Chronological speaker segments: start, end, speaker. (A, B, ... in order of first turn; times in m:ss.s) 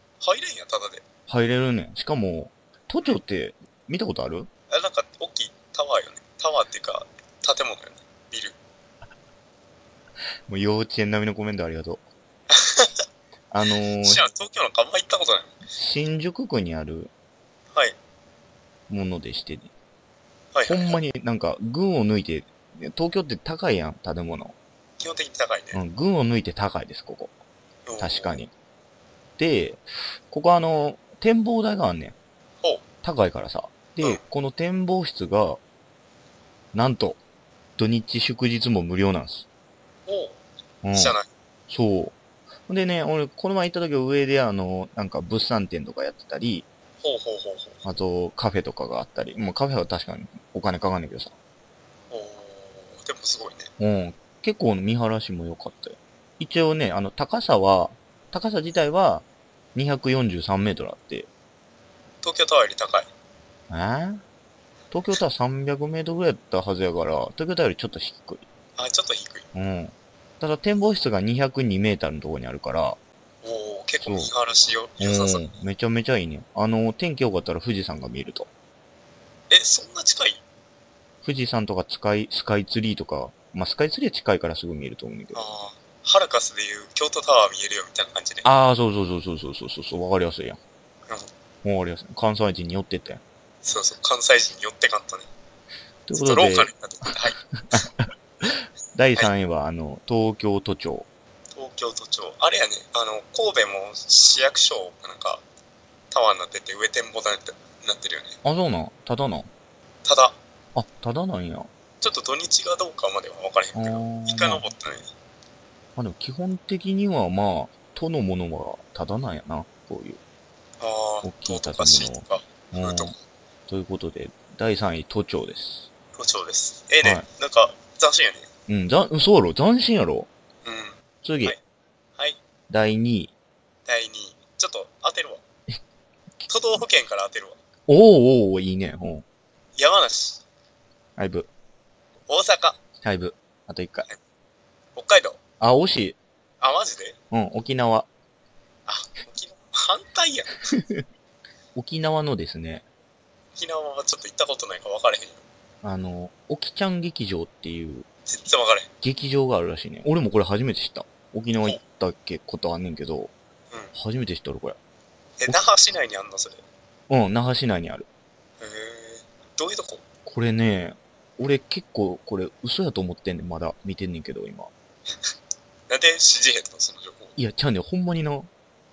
0:00.2-0:01.0 A
0:01.3-0:04.5 B
0:04.7-0:08.6 A
0:10.5-0:12.0 B
0:12.5-0:12.9 A
0:13.5-0:14.3 B
0:14.0-0:15.5 A
0:15.7-0:17.1 B
0:18.9-0:19.7 B
0:20.5-0:21.0 A
0:20.7-0:24.6 B
0:25.0-0:25.8 A
0:25.7-0:27.3 B
0:27.9-0:28.4 A
0:28.0-0:28.5 B
0:29.4-0:32.2 B
0:33.0-0:35.6 B
0:36.7-0:37.2 B
0:37.8-0:39.5 B
0:40.1-0:40.4 A
0:40.8-0:42.2 B
0:40.9-0:41.2 A
0:42.7-0:46.7 B
0:47.0-0:47.8 A
0:47.8-0:51.3 B
0:52.1-0:53.7 A
0:53.8-1:01.3 B
1:02.2-1:03.1 A
1:03.7-1:04.2 B
1:04.9-1:08.4 B
1:08.8-1:09.4 A
1:09.5-1:13.0 B
1:13.4-1:15.5 A
1:14.0-1:14.3 B
1:15.0-1:18.5 B
1:19.5-1:20.4 A
1:21.2-1:25.4 B
1:25.3-1:28.5 A
1:28.4-1:30.6 B
1:31.6-1:33.2 B
1:33.6-1:35.3 A
1:36.1-1:36.7 B
1:36.1-1:37.8 A
1:37.6-1:41.1 B
1:41.5-1:45.4 A
1:46.1-1:48.4 A
1:48.4-1:49.5 B
1:50.0-1:50.4 A
1:50.7-1:51.7 B
1:52.0-1:55.1 A
1:53.7-1:54.7 B
1:56.0-2:00.2 B
2:00.8-2:03.1 A
2:01.2-2:03.1 B
2:03.7-2:05.9 B
2:06.2-2:08.5 A
2:08.7-2:10.3 B
2:10.6-2:11.6 A
2:11.2-2:11.6 B
2:12.7-2:13.3 B
2:13.8-2:15.4 A
2:16.5-2:17.6 A
2:17.9-2:19.2 B
2:19.8-2:20.4 A
2:21.2-2:21.5 B
2:22.3-2:22.8 A
2:23.0-2:24.1 B
2:25.0-2:25.4 A
2:25.6-2:26.2 B
2:26.6-2:27.2 A
2:27.3-2:28.1 B
2:28.9-2:30.7 A
2:31.7-2:32.8 B
2:33.5-2:35.4 A
2:35.8-2:38.0 B
2:38.3-2:38.9 A
2:39.0-2:43.3 B
2:43.9-2:44.8 B
2:45.4-2:46.6 A
2:47.1-2:48.1 B
2:48.6-2:50.0 A
2:50.2-2:54.7 B
2:55.9-2:57.4 A
2:57.4-2:58.5 B